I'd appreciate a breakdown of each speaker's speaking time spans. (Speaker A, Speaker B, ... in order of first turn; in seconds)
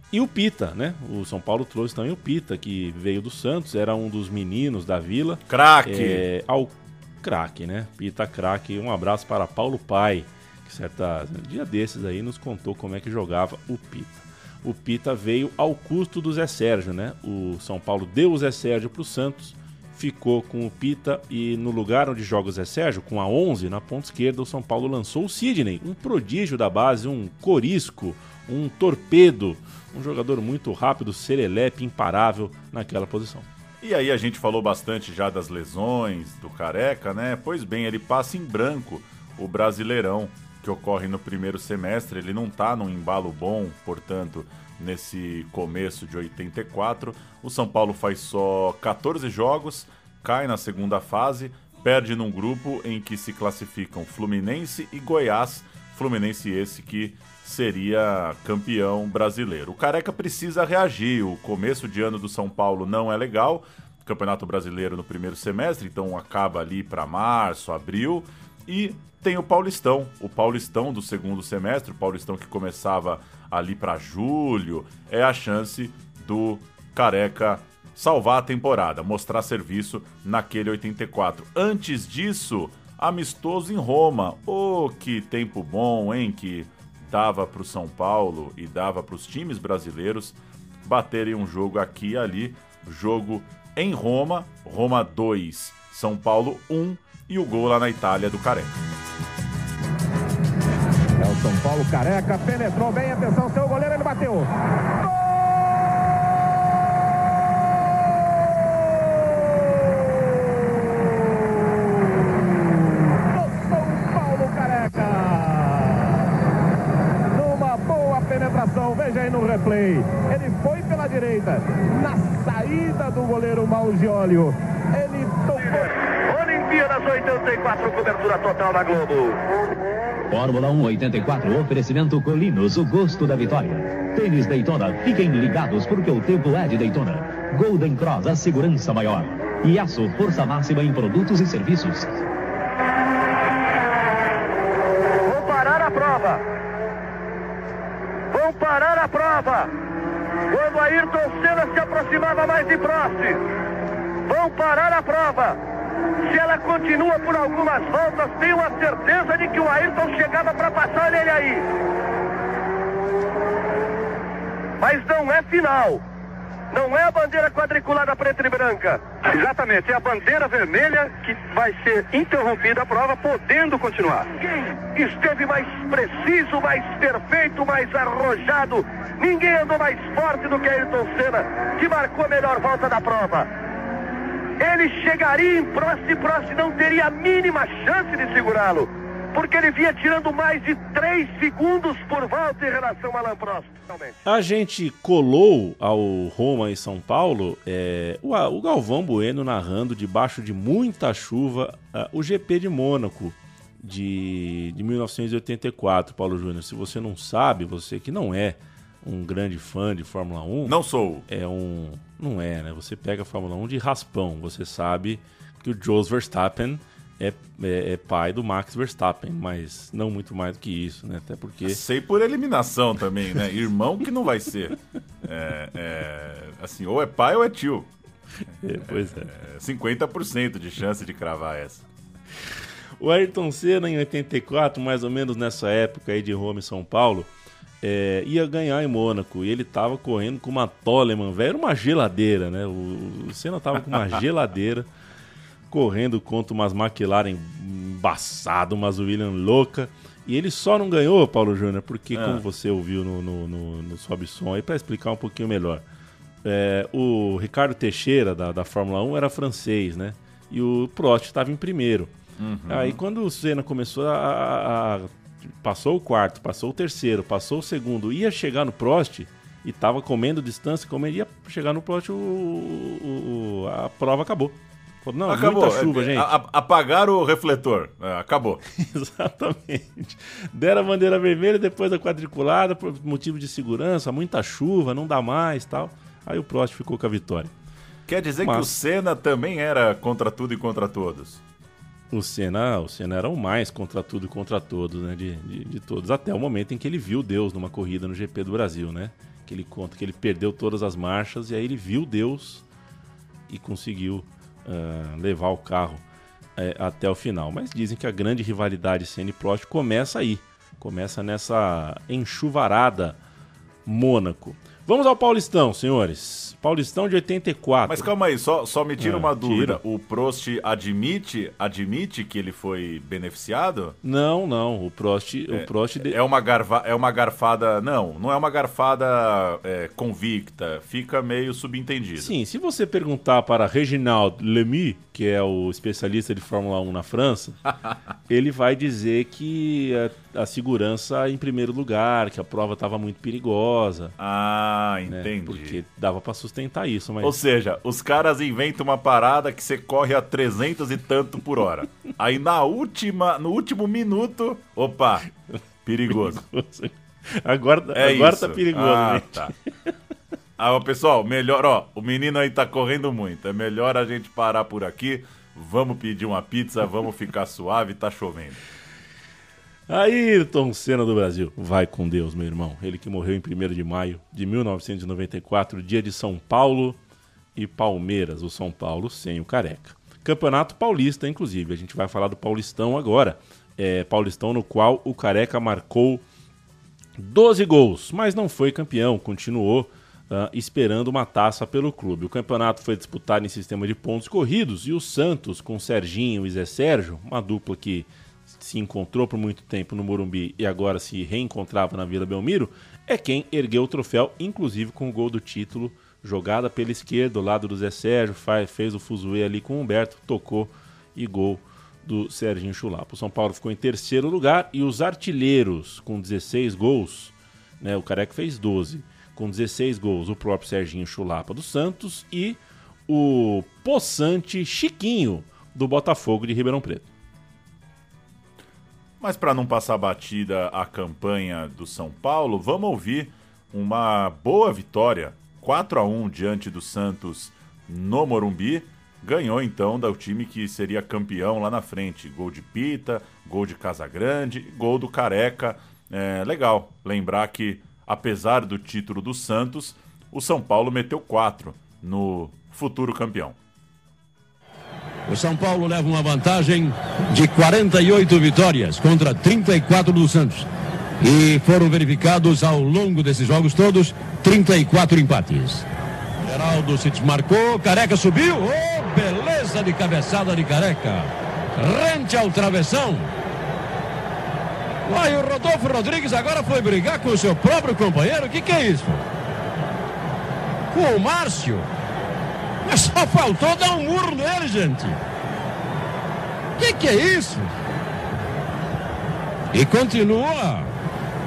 Speaker A: 0.1-33.5, 194.2-210.8, 211.3-221.8, 228.6-229.3, 233.0-237.3, 237.8-244.8, 245.7-255.8, 256.4-262.1, 262.7-276.3, 278.8-287.5, 288.4-288.7, 292.1-302.6, 303.5-306.0, 306.6-313.2, 313.9-318.1, 319.0-319.8, 324.0-326.1, 332.2-337.6, 338.3-344.1, 345.1-347.3, 356.1-359.5, 369.9-377.0, 377.5-386.2, 387.2-427.1
Speaker B: 5.5-6.2, 33.8-98.7, 210.6-211.2, 221.6-227.9, 228.8-231.8, 243.8-244.2, 252.1-252.4, 262.4-263.0, 275.3-278.6, 288.1-291.4, 317.9-323.9, 325.5-332.3, 344.2-345.8, 347.2-355.2, 355.8-356.4, 357.9-359.5, 360.6-368.6, 429.2-453.6
Speaker C: 101.2-104.5, 110.8-111.1, 111.7-116.1, 117.3-125.9
Speaker D: 126.2-129.4, 145.2-146.4, 148.3-149.7, 150.5-153.4, 154.2-155.6, 156.2-161.7, 164.8-166.0, 166.7-183.5, 184.6-194.2
Speaker E: 130.3-142.1
Speaker F: 455.3-460.7, 461.2-465.8, 466.4-473.3, 475.1-479.2, 480.9-481.9, 482.8-485.2, 486.8-487.7, 489.7-490.9